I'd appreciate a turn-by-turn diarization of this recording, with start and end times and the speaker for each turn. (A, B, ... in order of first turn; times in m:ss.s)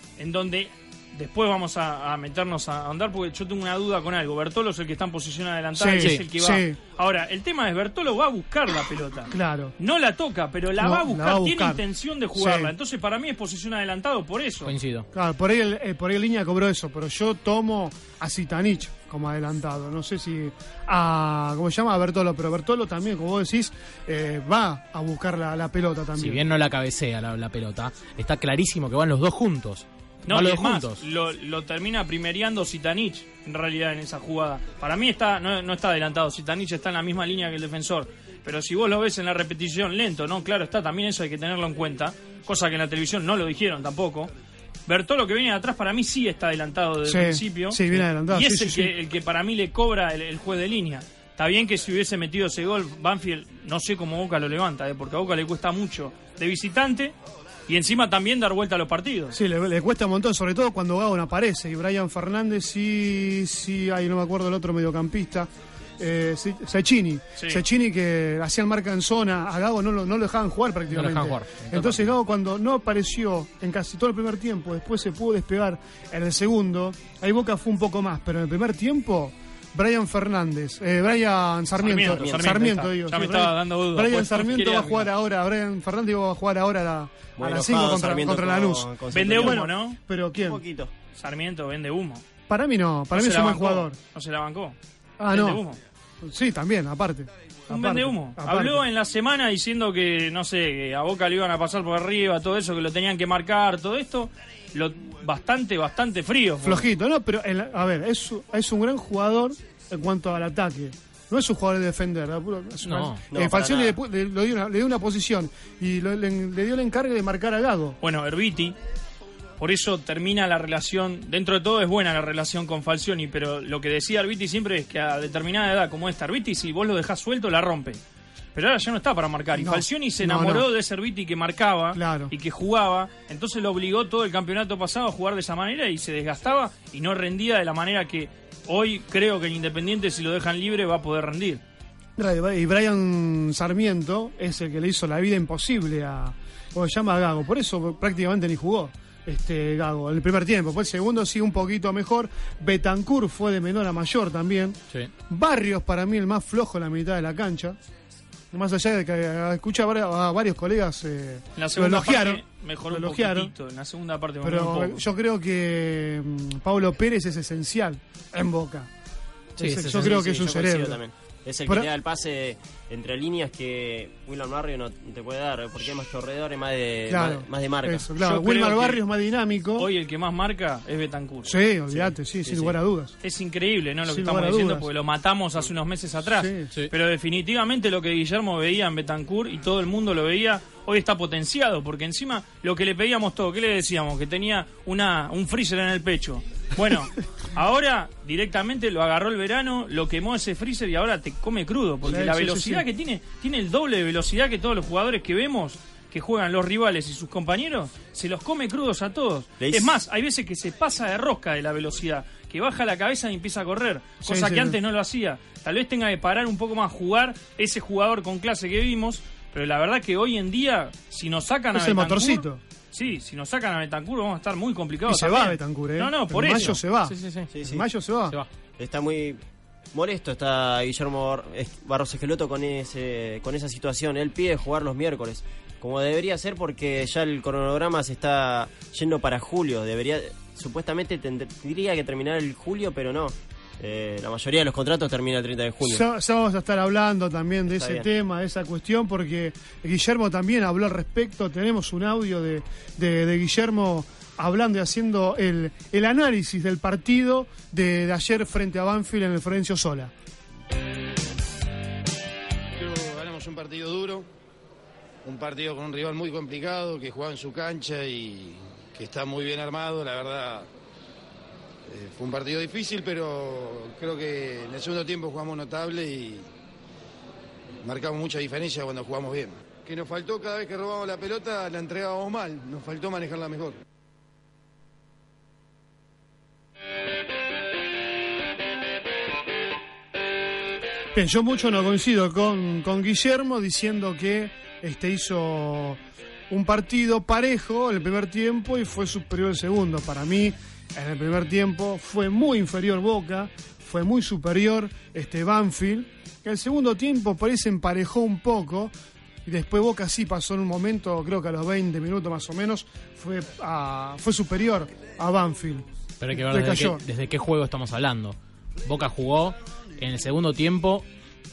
0:00.2-0:14.7 A
0:05.8-0:06.8 B
0:06.0-0:06.2 C
0:09.3-0:09.7 B
0:10.8-0:11.8 B
0:12.4-0:12.7 B
0:14.6-0:15.1 C
0:15.1-0:26.4 B
0:26.2-0:31.0 C
0:30.3-0:44.3 A
0:44.9-0:57.1 A
0:47.0-0:48.9 B
0:57.7-0:59.4 A
0:59.3-1:30.6 B
1:07.4-1:07.6 A
1:10.9-1:12.1 C
1:21.8-1:25.1 A
1:27.4-1:29.7 D
1:29.1-1:30.0 A
1:30.4-1:30.9 D
1:31.2-1:32.2 A
1:32.5-1:34.0 B
1:33.1-1:34.8 A
1:35.2-1:35.6 B
1:35.3-1:35.8 A
1:36.2-1:38.8 B
1:37.7-1:46.8 A
1:46.6-1:58.0 B
1:52.8-1:53.2 C
1:53.3-1:53.9 D
1:58.0-1:58.8 A
1:59.6-2:08.0 A
2:08.5-2:21.6 A
2:09.6-2:10.6 B
2:11.9-2:12.3 B
2:22.2-2:37.8 B
2:38.5-2:43.5 B
2:41.6-2:45.0 A
2:44.4-2:48.9 B
2:49.6-2:51.0 B
2:49.6-2:50.1 C
2:49.6-2:58.0 D
2:57.1-2:59.9 B
2:58.2-2:59.0 A
2:59.8-3:01.6 A
3:01.4-3:03.1 B
3:01.9-3:02.7 D
3:03.2-3:46.8 A
3:04.1-3:04.9 B
3:06.3-3:06.7 B
3:22.0-3:22.8 B
3:29.6-3:30.0 D
3:34.2-3:34.8 B
3:41.7-3:42.6 B
3:45.1-3:48.4 B
3:47.1-3:47.5 C
3:47.5-3:47.8 D
3:48.8-3:49.4 D
3:49.9-4:06.0 D
4:05.8-4:20.1 B
4:07.7-4:08.0 D
4:22.8-4:24.3 E
4:25.2-4:30.7 E
4:31.9-4:36.5 E
4:37.8-4:43.8 E
4:51.1-4:56.0 B
4:56.5-5:08.9 B
5:09.4-5:17.0 B
5:16.2-5:21.0 C